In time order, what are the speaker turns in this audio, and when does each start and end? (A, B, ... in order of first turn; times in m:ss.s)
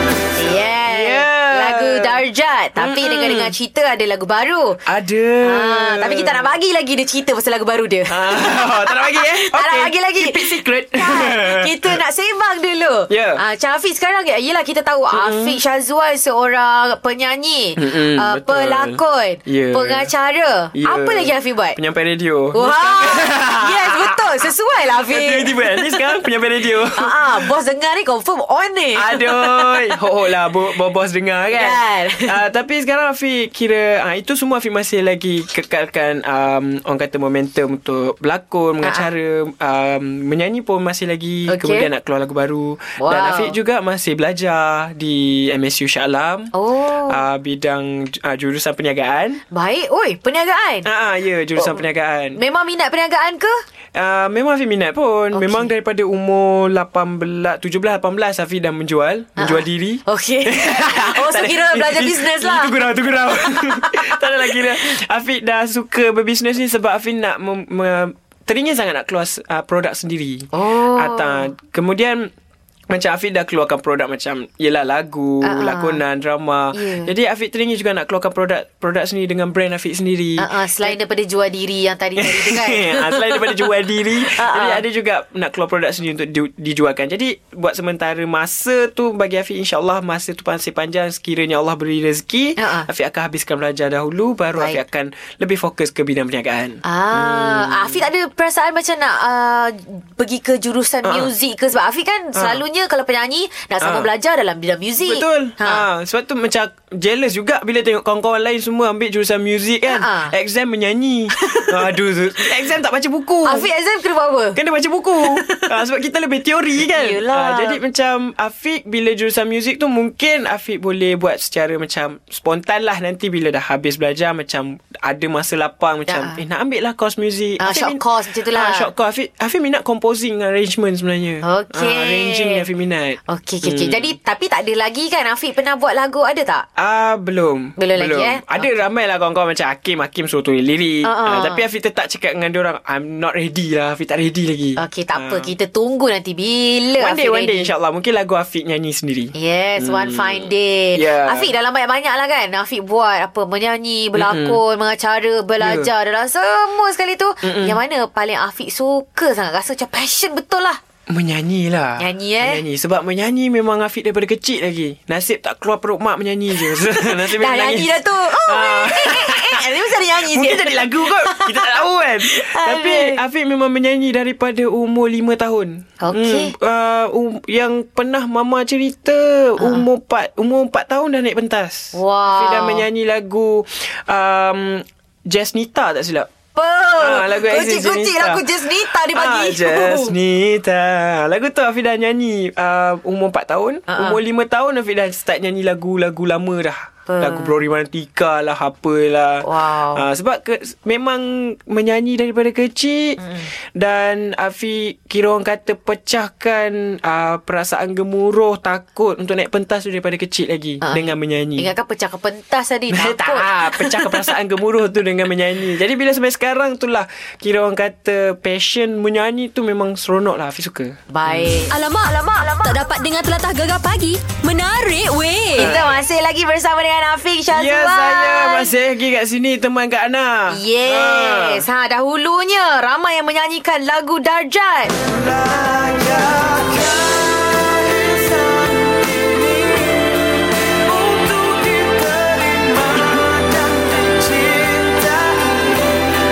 0:00.4-0:04.8 A
0:00.9-0:02.2 B
0:02.8-0:03.5 B
0:04.9-0:06.5 B
0:05.4-0:21.8 A
0:08.1-0:12.0 B
0:13.1-0:13.4 B
0:15.1-0:15.6 B
0:17.8-0:20.1 B
0:20.7-0:24.2 B
0:22.5-0:26.0 A
0:25.1-0:27.5 B
0:27.0-0:30.0 A
0:29.0-0:46.5 B
0:31.5-0:32.4 A
0:38.8-0:39.1 A
0:41.5-0:41.9 A
0:43.0-0:43.6 A
0:46.5-0:47.2 A
0:47.1-0:49.4 B
0:49.5-0:50.9 A
0:50.8-0:52.4 B
0:52.4-0:53.6 A
0:54.0-1:12.3 B
0:55.3-0:55.7 A
0:59.4-1:04.6 A
1:10.5-1:11.5 A
1:12.9-1:21.0 B
1:15.4-1:16.0 A
1:16.7-1:17.1 A
1:20.4-1:23.7 A
1:22.2-1:38.0 B
1:24.2-1:24.8 A
1:32.6-1:32.9 A
1:34.6-1:34.8 A
1:36.8-1:45.8 A
1:41.0-1:41.3 B
1:42.4-1:42.6 B
1:43.8-1:44.1 B
1:45.0-1:53.7 B
1:49.9-1:50.3 A
1:51.3-1:51.9 A
1:53.4-1:54.6 A
1:54.6-2:14.1 B
1:55.2-1:55.7 A
1:56.9-1:57.8 A
2:06.1-2:06.4 A
2:07.6-2:08.9 A
2:11.4-2:12.6 A
2:13.3-2:16.7 A
2:16.8-2:25.5 B
2:17.8-2:18.7 A
2:21.0-2:21.6 A
2:24.8-2:27.7 A
2:27.0-2:31.5 B
2:29.4-2:40.8 A
2:34.2-2:34.6 B
2:35.6-2:35.9 B
2:37.4-2:37.8 B
2:41.1-3:06.3 B
2:42.0-2:42.6 A
2:46.6-2:53.2 A
2:56.0-2:56.5 A
2:59.6-2:59.8 A
3:01.9-3:02.8 A
3:06.6-3:10.1 A
3:07.0-3:23.2 B
3:13.9-3:14.2 A
3:17.1-3:17.6 A
3:19.4-3:20.1 A
3:23.2-3:23.5 A
3:23.7-3:31.7 B
3:30.8-3:34.2 A
3:32.9-3:41.6 B
3:41.1-3:41.7 A
3:41.7-3:45.8 C
3:45.6-3:48.7 A
3:45.6-3:45.8 B
3:47.5-3:51.6 B
3:50.5-3:55.0 A
3:55.0-4:06.1 B